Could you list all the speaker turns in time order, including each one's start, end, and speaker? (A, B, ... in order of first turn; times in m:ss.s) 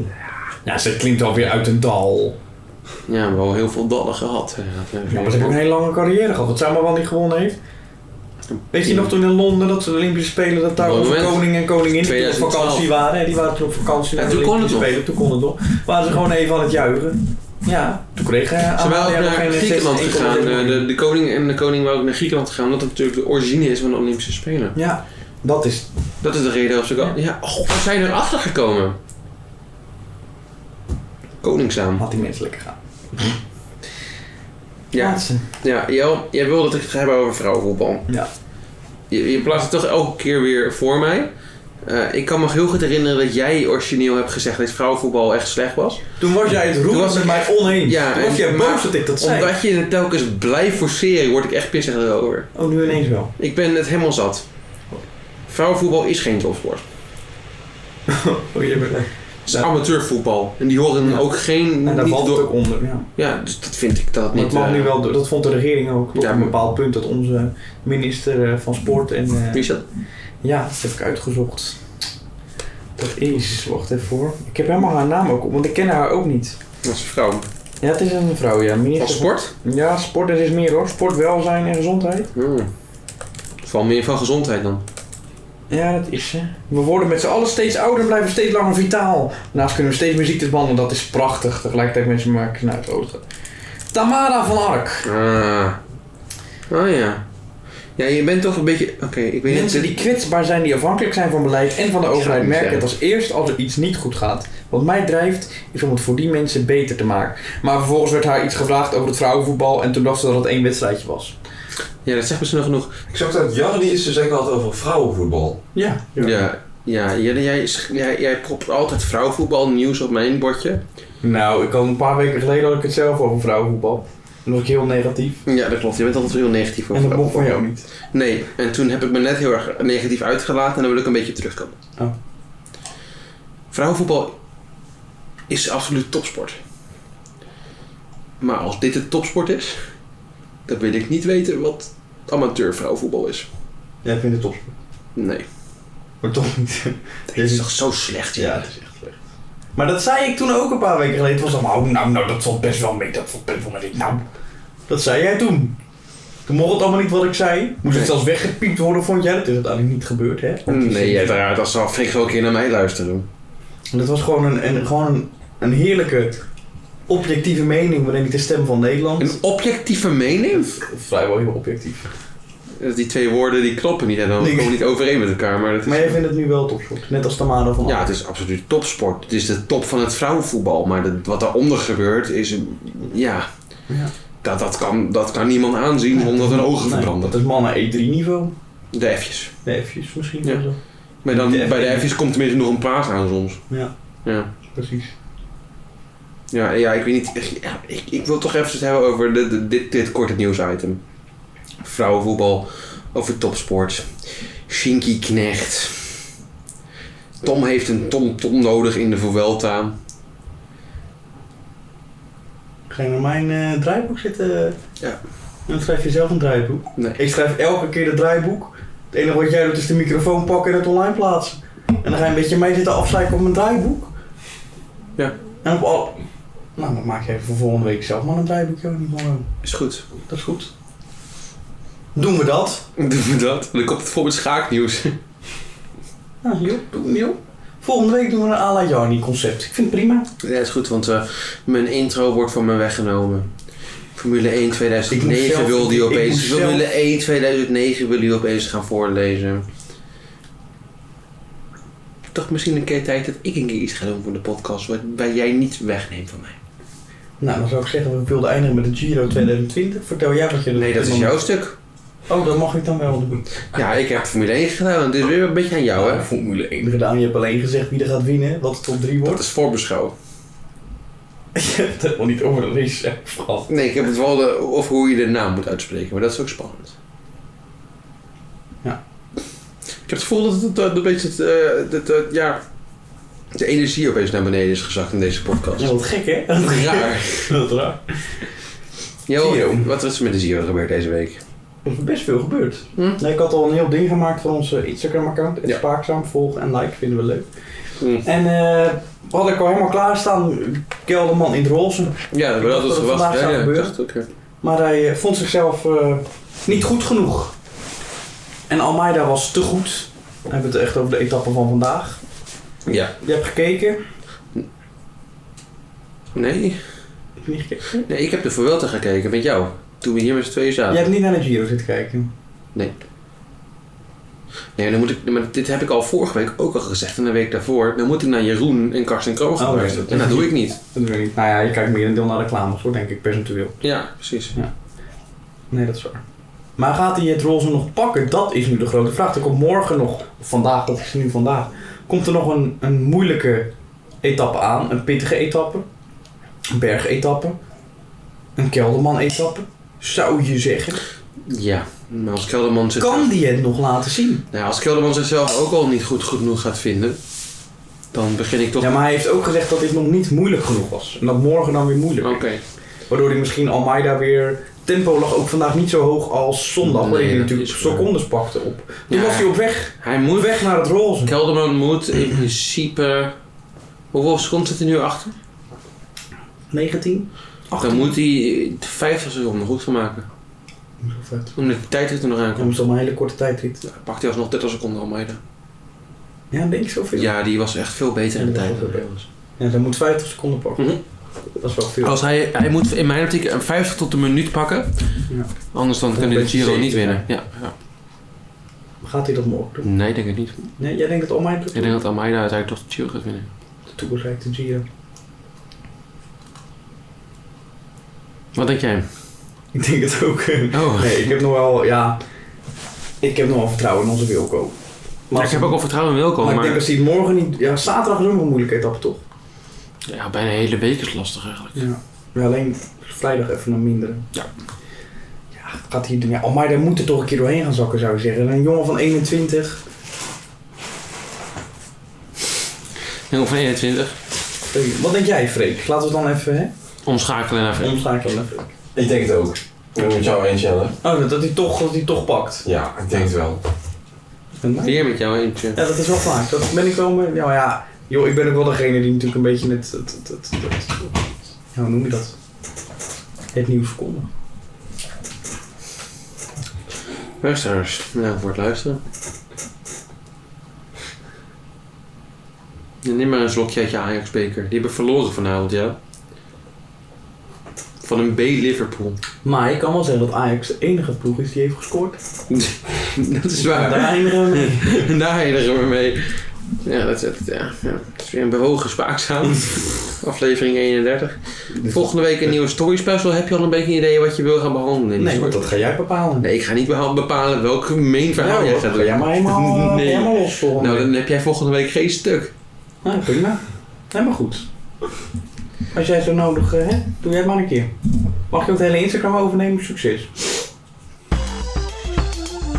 0:00.6-0:02.4 A
0:03.1-0:05.6 B
0:05.1-0:07.6 A
0:08.5-0:09.1 B
0:08.7-0:20.8 A
0:10.8-0:12.9 B
0:14.2-0:14.9 B
0:18.8-0:24.8 B
0:24.8-0:25.9 A
0:26.2-0:29.0 B
0:31.4-0:32.0 B
0:32.0-0:33.4 A
0:34.9-0:38.1 B
0:35.0-0:35.5 A
0:39.1-0:41.3 B
0:41.8-0:46.2 B
0:46.2-0:49.5 A
0:46.9-0:52.5 B
0:52.6-0:53.3 A
0:53.4-0:54.4 B
0:55.5-0:56.8 B
0:58.1-0:59.7 A
0:59.5-1:02.5 B
1:01.8-1:03.1 A
1:03.2-1:04.9 B
1:04.3-1:09.7 A
1:06.2-1:06.5 B
1:09.5-1:09.8 B
1:10.4-1:11.8 A
1:13.0-1:16.6 A
1:16.8-1:17.5 B
1:17.8-1:22.3 A
1:19.0-1:19.5 B
1:22.4-1:22.7 B
1:23.6-1:24.8 B
1:25.7-1:33.2 A
1:33.9-1:35.1 A
1:35.0-1:35.8 B
1:36.7-1:37.2 B
1:38.0-1:40.0 B
1:39.5-1:51.4 A
1:42.1-1:42.9 B
1:52.0-1:53.0 B
1:53.1-1:55.6 C
1:55.8-1:56.5 A
1:56.2-2:00.8 B
2:01.2-2:05.4 A
2:05.5-2:07.6 B
2:06.9-2:07.8 A
2:08.1-2:11.7 B
2:13.7-2:14.4 B
2:15.5-2:16.6 B
2:18.4-2:19.8 B
2:20.7-2:23.5 B
2:24.0-2:24.7 A
2:25.2-2:25.4 B
2:26.2-2:27.7 A
2:27.3-2:28.6 B
2:28.4-2:29.2 A
2:29.8-2:34.2 A
2:34.9-2:35.8 A
2:36.5-2:41.4 A
2:40.7-2:43.3 B
2:43.9-2:46.4 A
2:47.1-2:49.4 A
2:49.2-2:50.8 B
2:50.7-2:52.1 A
2:52.8-2:56.2 B
2:54.4-2:54.8 A
2:55.8-2:58.1 A
2:57.8-3:03.5 B
3:04.4-3:07.3 B
3:06.1-3:08.6 A
3:08.9-3:09.6 B
3:09.6-3:10.8 A
3:11.2-3:13.6 B
3:11.3-3:12.1 A
3:14.6-3:15.1 A
3:16.5-3:21.0 B
3:21.8-3:26.2 B
3:27.4-3:29.9 B
3:32.9-3:34.8 A
3:35.7-3:44.1 A
3:45.6-3:46.2 A
3:46.8-3:49.5 A
3:49.6-3:50.0 B
3:50.3-3:50.7 A
3:52.2-3:52.8 A
3:53.0-3:55.2 B
3:56.4-4:00.3 A
4:00.4-4:03.5 B
4:04.2-4:09.7 B
4:05.1-4:06.9 A
4:12.3-4:16.6 B
4:17.4-4:21.4 A
4:20.8-4:21.8 B
4:22.3-4:23.5 A
4:23.7-4:26.3 B
4:26.0-4:29.4 A
4:29.2-4:30.1 B
4:31.6-4:33.7 A
4:33.7-4:37.0 B
4:40.1-4:42.6 B
4:43.5-4:45.9 B
4:45.8-4:48.4 A
4:46.6-4:47.6 B
4:49.3-4:51.4 B
4:49.4-4:49.9 A
4:51.9-4:57.5 A
4:53.0-4:53.2 B
4:58.0-4:58.2 B
4:58.2-5:04.0 A
5:02.3-5:04.3 B
5:04.6-5:07.6 A
5:08.7-5:12.2 A
5:12.9-5:13.1 B
5:13.1-5:14.0 A
5:16.3-5:16.8 B
5:17.4-5:18.0 A
5:18.0-5:21.1 B
5:20.9-5:22.3 A
5:24.8-5:30.8 B
5:29.6-5:33.8 A
5:33.8-5:34.6 B
5:35.7-5:36.2 A
5:36.8-5:43.7 A
5:44.2-5:45.8 A
5:46.7-5:47.6 A
5:48.6-5:51.0 A
5:51.5-5:53.3 B
5:53.0-5:54.4 A
5:54.5-5:57.2 B
5:58.1-5:59.0 B
5:58.8-6:02.6 A
6:02.2-6:02.6 B
6:03.1-6:11.3 A
6:06.8-6:08.1 B
6:09.1-6:10.7 B
6:11.2-6:13.3 B
6:14.1-6:15.4 B
6:16.7-6:18.2 A
6:17.8-6:20.3 B
6:21.0-6:21.6 A
6:21.6-6:22.8 B
6:22.6-6:23.8 A
6:23.8-6:25.4 B
6:26.5-6:27.3 A
6:27.2-6:29.3 B
6:28.4-6:29.1 A
6:29.6-6:31.0 A
6:31.6-6:32.2 A
6:32.0-6:37.7 B
6:35.3-6:35.5 A
6:36.1-6:37.2 A
6:39.0-6:39.9 A
6:39.8-6:40.7 B
6:40.8-6:42.0 A
6:41.7-6:43.5 B
6:43.9-6:44.8 A
6:48.5-6:49.1 B
6:49.7-6:52.2 A
6:50.7-6:51.3 B
6:53.2-6:54.8 A
6:55.3-6:55.8 A
6:55.4-6:56.8 B
6:56.4-6:59.2 A
7:00.1-7:01.8 B
7:01.8-7:04.3 A
7:05.6-7:09.8 A
7:13.3-7:14.2 B
7:14.7-7:16.7 A
7:17.0-7:18.0 B
7:17.8-7:18.7 A
7:19.0-7:21.0 C
7:21.0-7:22.7 A
7:22.6-7:23.6 C
7:24.6-7:25.0 A
7:24.8-7:25.8 B
7:25.8-7:31.1 A
7:31.7-7:32.4 A
7:33.5-7:34.3 A
7:37.4-7:39.0 B
7:43.0-7:46.0 B
7:48.0-7:49.2 B
7:49.4-7:52.2 A
7:52.5-8:05.7 B
7:53.5-7:55.1 A
8:01.7-8:02.0 A
8:05.2-8:06.5 A
8:06.4-8:12.5 B
8:08.4-8:11.1 A
8:13.0-8:14.7 A
8:15.9-8:17.9 A
8:18.5-8:20.3 A